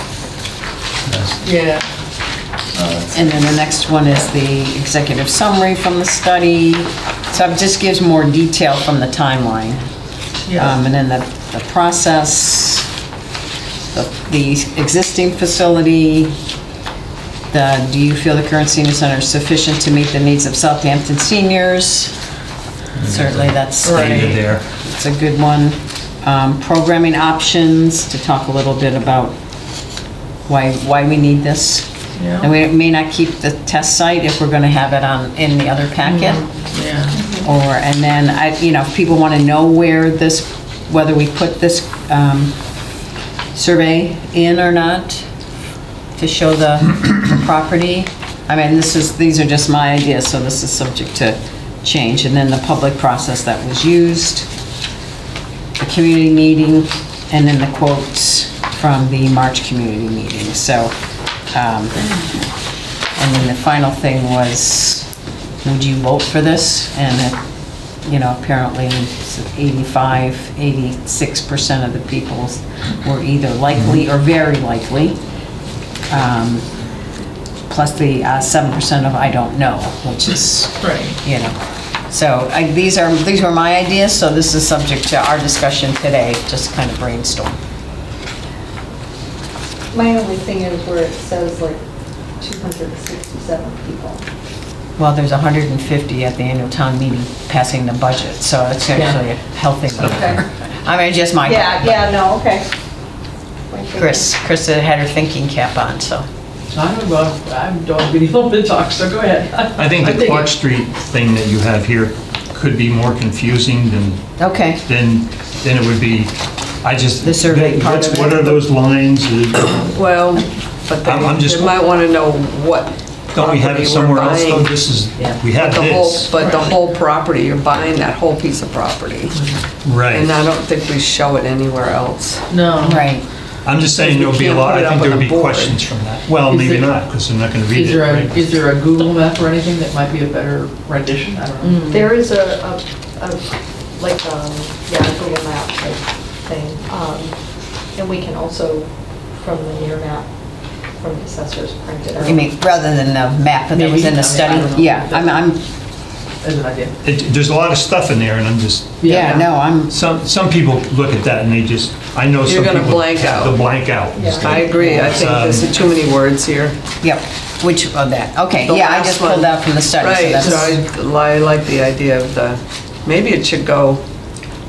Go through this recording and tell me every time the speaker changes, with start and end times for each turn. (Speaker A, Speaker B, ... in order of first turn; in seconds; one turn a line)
Speaker A: 1.1-1.4
Speaker B: 1.4-3.4
Speaker C: 3.1-9.9
Speaker B: 10.5-10.8
Speaker C: 10.5-12.9
Speaker C: 13.9-16.4
Speaker C: 17.5-22.2
Speaker A: 23.0-24.6
Speaker C: 23.0-29.4
Speaker B: 23.8-24.5
Speaker C: 30.5-36.6
Speaker B: 32.2-32.5
Speaker B: 36.0-37.3
Speaker D: 37.2-37.5
Speaker C: 37.4-42.9
Speaker C: 43.5-45.3
Speaker C: 46.1-54.5
Speaker C: 55.8-62.2
Speaker C: 63.1-65.1
Speaker C: 65.6-75.2
Speaker A: 73.7-74.0
Speaker C: 76.1-76.7
Speaker C: 77.7-87.6
Speaker B: 80.9-81.1
Speaker D: 89.9-94.2
Speaker C: 95.0-102.1
Speaker E: 98.9-99.2
Speaker A: 99.9-100.4
Speaker D: 101.4-102.7
Speaker D: 103.7-104.3
Speaker C: 104.0-106.3
Speaker E: 106.7-110.5
Speaker A: 109.8-120.0
Speaker C: 114.4-114.8
Speaker C: 117.2-118.6
Speaker F: 119.7-129.6
Speaker A: 121.0-121.8
Speaker A: 123.3-126.6
Speaker E: 129.3-129.6
Speaker A: 129.8-130.4
Speaker F: 130.1-132.5
Speaker B: 132.5-133.2
Speaker C: 132.8-133.3
Speaker A: 133.6-138.7
Speaker F: 133.9-136.0
Speaker E: 136.4-141.8
Speaker B: 141.6-142.1
Speaker D: 141.9-152.5
Speaker E: 152.1-152.5
Speaker C: 152.2-155.6
Speaker E: 153.7-155.4
Speaker E: 156.4-157.0
Speaker A: 157.0-165.7
Speaker E: 159.0-159.4
Speaker C: 159.1-159.9
Speaker F: 159.2-159.4
Speaker F: 162.5-166.8
Speaker D: 164.1-164.5
Speaker C: 164.7-165.3
Speaker C: 167.0-170.8
Speaker F: 168.7-174.0
Speaker E: 170.4-170.8